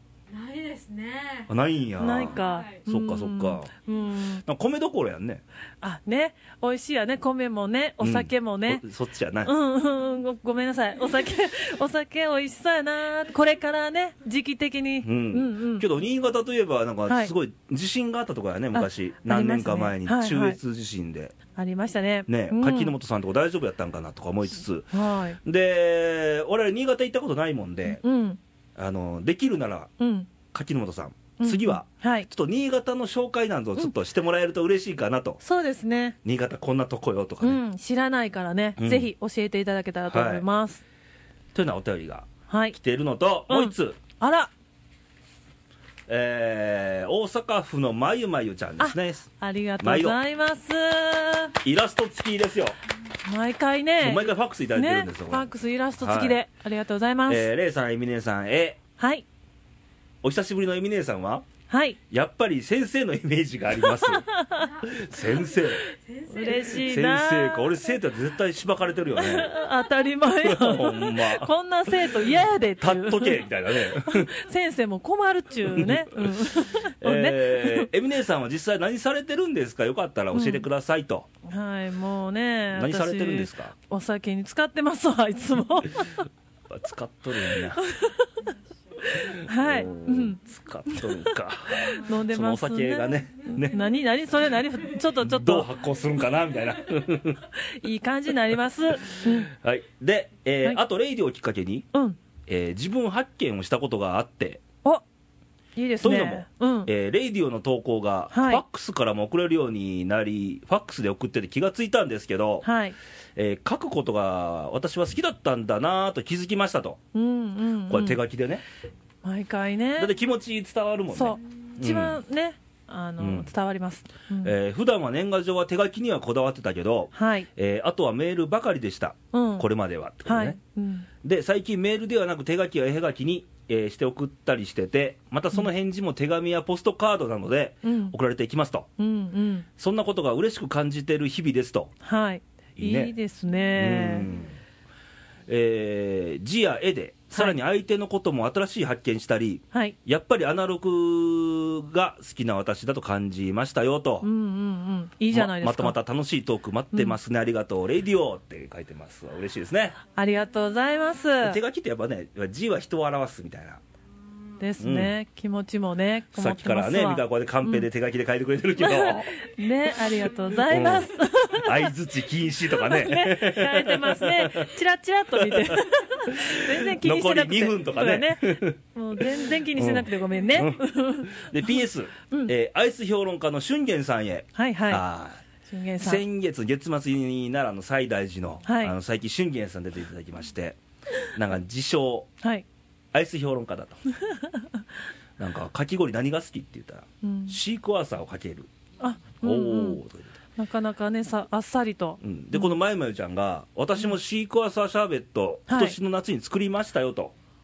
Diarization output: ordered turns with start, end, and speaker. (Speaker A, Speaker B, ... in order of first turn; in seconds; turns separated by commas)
Speaker A: 0.3-1.5, Speaker B: 1.5-3.7, Speaker C: 2.0-4.4, Speaker A: 2.3-2.8, Speaker B: 4.4-5.4, Speaker C: 5.8-8.8, Speaker B: 8.0-9.5, Speaker C: 9.4-15.8, Speaker B: 15.0-21.3, Speaker C: 17.1-17.3, Speaker C: 18.7-20.6, Speaker C: 21.5-22.9, Speaker B: 22.3-28.0, Speaker C: 24.9-25.4, Speaker C: 27.9-28.4, Speaker B: 28.8-29.9, Speaker C: 30.0-30.3, Speaker B: 30.5-35.4, Speaker C: 31.4-32.3, Speaker C: 35.4-36.1, Speaker B: 36.2-37.6, Speaker C: 37.4-40.8, Speaker B: 38.8-39.1, Speaker B: 40.1-40.4, Speaker B: 41.5-44.0, Speaker C: 42.5-42.8, Speaker C: 43.5-44.5, Speaker B: 46.1-49.3, Speaker C: 48.8-51.5, Speaker B: 49.8-50.2, Speaker B: 51.6-52.7, Speaker C: 53.2-57.5, Speaker B: 54.0-55.5, Speaker B: 56.0-56.4, Speaker B: 57.3-58.8, Speaker C: 59.0-59.2, Speaker B: 60.2-61.5, Speaker C: 61.7-62.0, Speaker B: 62.1-64.3, Speaker C: 64.0-64.7, Speaker B: 64.8-65.8, Speaker A: 65.9-66.8, Speaker C: 66.3-67.9, Speaker B: 66.7-69.5, Speaker C: 69.2-77.9, Speaker B: 70.4-74.3, Speaker B: 75.7-81.3, Speaker C: 80.3-80.6, Speaker C: 81.5-86.2, Speaker B: 82.7-83.7, Speaker B: 86.7-87.8, Speaker C: 87.8-88.3, Speaker C: 89.1-91.2, Speaker B: 89.1-93.8, Speaker C: 91.8-95.7, Speaker B: 95.2-97.5, Speaker C: 97.7-99.5, Speaker B: 99.1-101.9, Speaker B: 102.5-104.6, Speaker C: 105.8-106.9, Speaker B: 106.0-112.7, Speaker C: 108.3-108.6, Speaker C: 112.6-113.0, Speaker B: 113.3-117.0, Speaker C: 117.1-118.2, Speaker B: 117.9-118.6, Speaker C: 119.2-120.1, Speaker B: 120.0-122.2, Speaker C: 121.1-124.5, Speaker B: 123.2-123.5, Speaker B: 124.4-130.6, Speaker C: 127.1-127.5, Speaker C: 129.3-129.7, Speaker C: 130.3-131.1, Speaker B: 131.2-138.9, Speaker C: 137.8-138.1, Speaker C: 139.0-139.7, Speaker B: 139.8-141.9, Speaker C: 142.0-144.3, Speaker B: 142.8-143.1, Speaker B: 143.7-144.6, Speaker B: 145.5-154.3, Speaker C: 154.2-155.9, Speaker B: 155.3-159.9, Speaker C: 160.2-161.6, Speaker B: 161.4-163.8, Speaker C: 164.6-167.8, Speaker B: 164.8-165.1, Speaker B: 166.3-169.3, Speaker C: 168.8-171.9, Speaker B: 170.7-174.7, Speaker C: 172.8-181.5, Speaker B: 175.4-180.8, Speaker B: 181.3-185.4, Speaker C: 184.6-185.0, Speaker C: 185.7-186.2, Speaker B: 186.0-190.8, Speaker C: 188.7-188.9, Speaker B: 191.3-192.3, Speaker B: 193.1-194.0, Speaker B: 195.4-198.7, Speaker C: 197.2-197.6, Speaker C: 199.0-200.0, Speaker B: 199.4-200.3, Speaker C: 200.6-202.7, Speaker B: 202.2-207.3, Speaker C: 205.7-205.9